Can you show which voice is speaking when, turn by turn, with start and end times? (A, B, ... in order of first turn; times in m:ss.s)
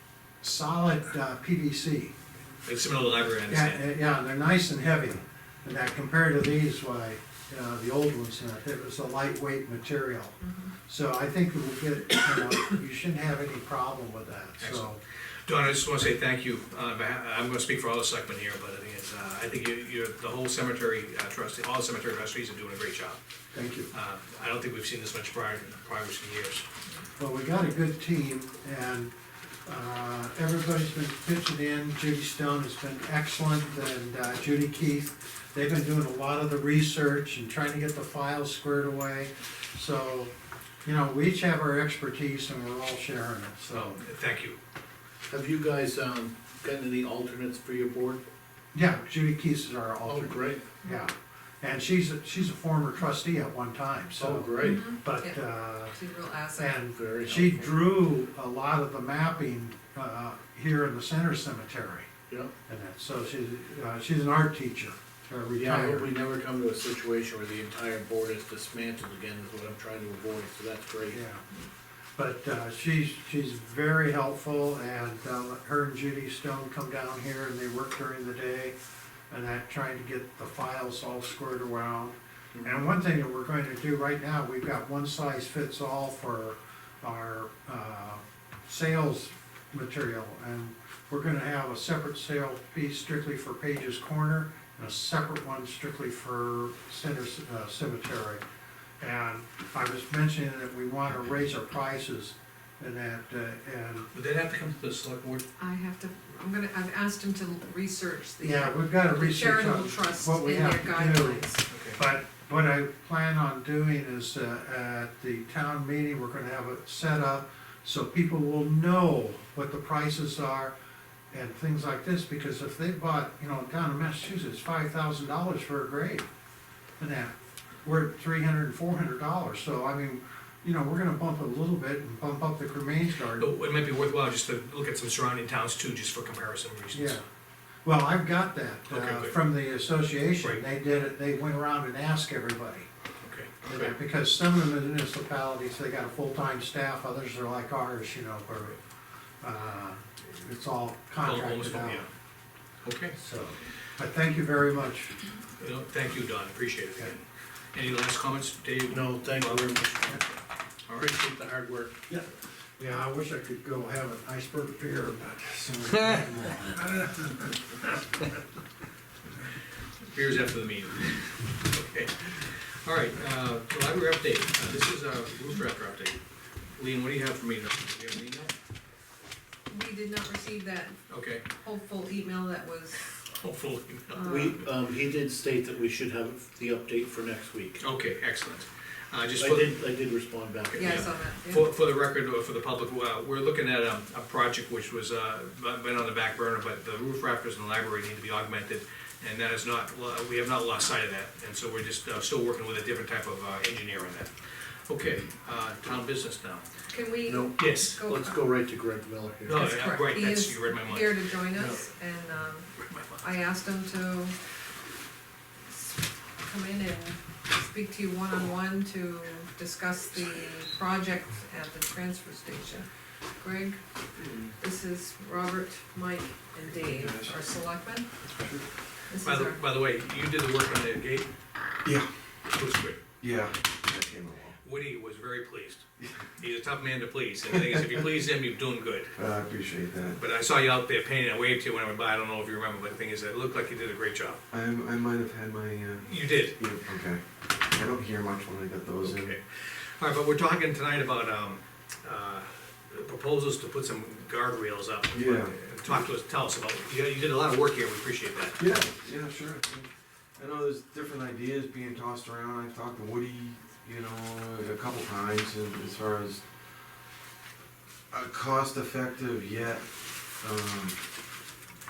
0:00.4-0:02.1 A
0:02.6-0:03.8 B
0:03.5-0:15.0 A
0:14.6-0:23.2 B
0:23.5-0:23.9 A
0:23.9-0:26.6 B
0:27.2-0:29.1 A
0:29.6-0:40.3 A
0:40.8-0:44.0 A
0:43.7-0:44.6 B
0:45.3-0:48.2 C
0:48.7-0:56.0 A
0:50.0-0:50.7 C
0:54.2-0:54.8 C
0:54.6-0:55.4 D
0:55.9-0:56.7 D
0:56.6-1:02.1 A
0:56.9-0:57.8 C
1:02.7-1:06.1 A
1:05.6-1:11.2 C
1:11.1-1:11.4 A
1:12.2-1:18.7 A
1:19.3-1:38.4 A
1:39.0-1:44.1 A
1:44.1-1:45.4 B
1:45.6-1:51.6 D
1:48.4-2:00.7 A
1:51.7-1:52.0 B
2:01.3-2:06.3 A
2:07.0-2:07.3 A
2:07.8-2:13.5 A
2:13.4-2:17.2 B
2:16.9-2:17.2 A
2:17.8-2:22.9 A
2:18.9-2:19.4 B
2:23.2-2:23.9 B
2:23.7-2:28.8 A
2:29.4-2:32.0 A
2:31.2-2:32.1 B
2:32.8-2:33.1 B
2:33.1-2:35.2 A
2:35.6-2:39.8 B
2:38.9-2:40.4 C
2:40.9-2:41.9 C
2:42.1-2:47.1 A
2:45.8-2:46.7 E
2:50.1-2:56.2 B
2:56.8-2:58.5 B
2:59.7-3:01.0 D
3:01.1-3:01.4 B
3:01.6-3:03.0 D
3:03.3-3:04.6 B
3:04.2-3:04.5 D
3:04.2-3:07.8 C
3:07.8-3:09.8 B
3:09.4-3:11.0 C
3:10.7-3:26.8 B
3:10.8-3:11.6 D
3:26.9-3:28.4 D
3:27.2-3:29.7 C
3:27.5-3:28.0 B
3:29.4-3:31.2 B
3:29.6-3:34.3 D
3:32.8-3:33.2 B
3:35.7-3:42.8 D
3:43.4-3:43.8 D
3:44.2-3:44.6 E
3:44.6-3:48.0 D
3:46.7-3:47.4 E
3:48.2-3:48.7 E
3:49.2-3:49.6 D
3:49.2-3:51.3 B
3:51.8-3:52.1 E
3:52.5-3:53.0 B
3:53.2-3:54.6 E
3:54.6-3:55.8 B
3:56.4-3:59.2 B
3:59.2-4:00.2 E
4:00.2-4:04.4 B
4:04.5-4:09.3 E
4:06.0-4:06.6 B
4:09.0-4:18.7 B
4:15.1-4:16.0 E
4:18.6-4:26.6 E
4:28.1-4:31.1 E